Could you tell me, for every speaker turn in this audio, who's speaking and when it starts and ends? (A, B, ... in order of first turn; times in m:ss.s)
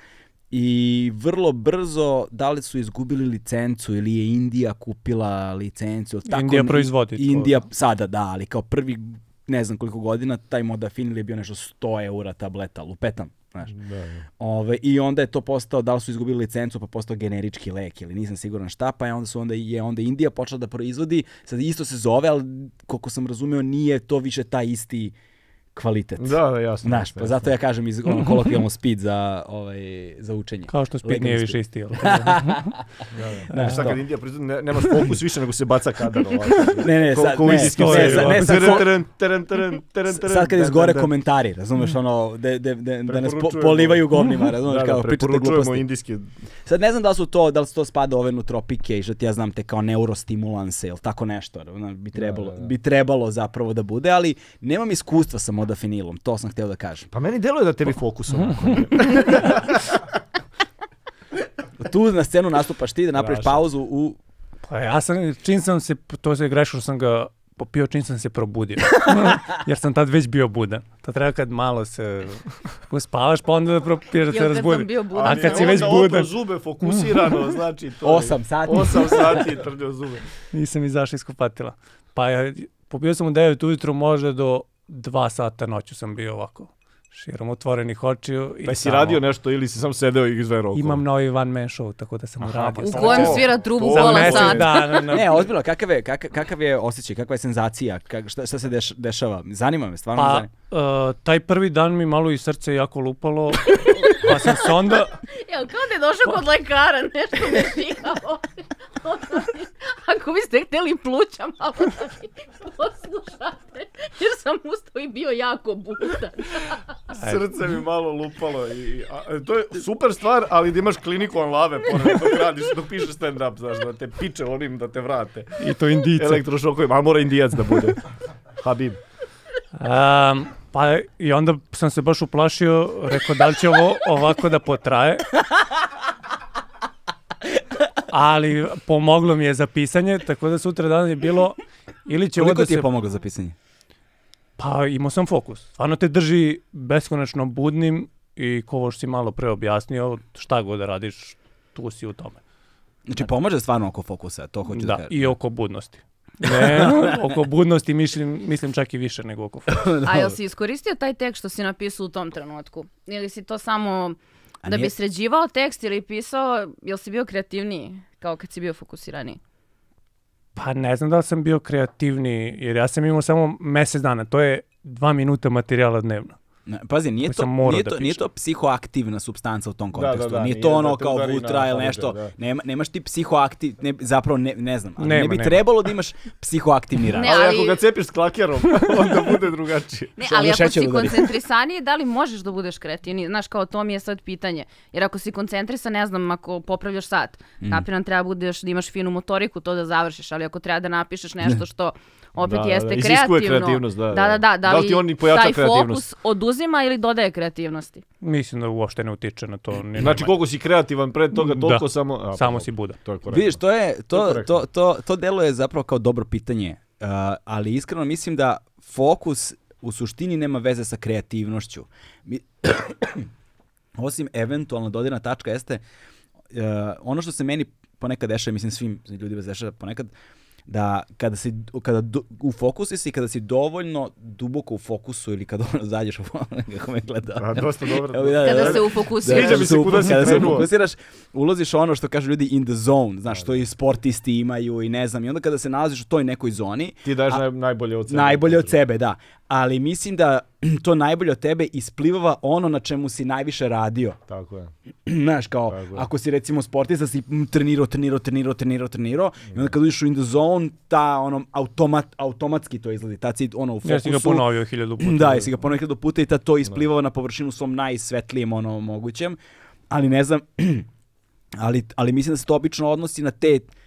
0:00.5-0:13.7 A
0:06.2-0:07.5 B
0:13.7-0:14.2 C
0:14.4-0:25.1 A
0:25.7-0:32.7 A
0:26.2-0:27.5 C
0:28.1-0:28.6 B
0:30.7-0:32.7 B
0:33.1-0:41.1 C
0:33.5-0:34.0 A
0:33.5-0:33.9 B
0:36.8-0:38.9 A
0:37.5-0:38.8 B
0:40.1-0:45.8 A
0:43.0-0:46.4 C
0:46.6-0:57.1 A
0:52.2-0:52.7 C
0:57.1-1:00.0 C
1:01.8-1:04.2 A
1:03.1-1:03.6 C
1:04.6-1:17.4 B
1:14.3-1:15.9 D
1:15.1-1:20.3 C
1:18.0-1:19.5 A
1:20.5-1:29.2 B
1:28.6-1:31.0 C
1:30.7-1:35.4 B
1:32.4-1:35.1 C
1:32.8-1:34.8 D
1:35.1-1:40.5 A
1:40.2-1:45.1 B
1:45.3-1:56.9 D
1:57.1-2:05.6 C
1:57.2-1:57.4 B
2:05.6-2:06.4 B
2:06.2-2:08.0 C
2:08.6-2:09.0 C
2:09.8-2:15.3 B
2:18.1-2:22.9 B
2:22.3-2:23.5 A
2:24.6-2:32.4 B
2:33.1-2:35.3 A
2:34.7-2:39.7 B
2:39.7-2:40.4 A
2:40.0-2:49.4 D
2:44.6-2:44.9 A
2:50.6-2:56.4 B
2:56.7-3:07.3 A
2:57.2-2:58.2 B
2:59.9-3:02.3 C
3:05.0-3:05.6 B
3:07.1-3:07.8 D
3:07.2-3:10.1 C
3:10.2-3:28.0 D
3:10.2-3:11.3 A
3:22.4-3:26.0 C
3:28.2-3:30.4 B
3:30.0-3:33.6 C
3:31.3-3:33.0 B
3:33.3-3:43.3 A
3:34.1-3:34.6 C
3:44.0-3:45.8 A
3:46.5-3:50.1 A
3:50.7-4:07.4 A
3:57.4-4:00.7 C
3:58.4-4:00.0 D
4:03.3-4:03.6 C
4:07.0-4:08.8 C
4:08.1-4:14.2 A
4:14.3-4:14.7 C
4:15.0-4:24.4 A
4:15.7-4:16.0 C
4:23.8-4:25.6 B
4:25.0-4:29.4 A
4:29.9-4:30.9 A
4:31.6-4:33.7 A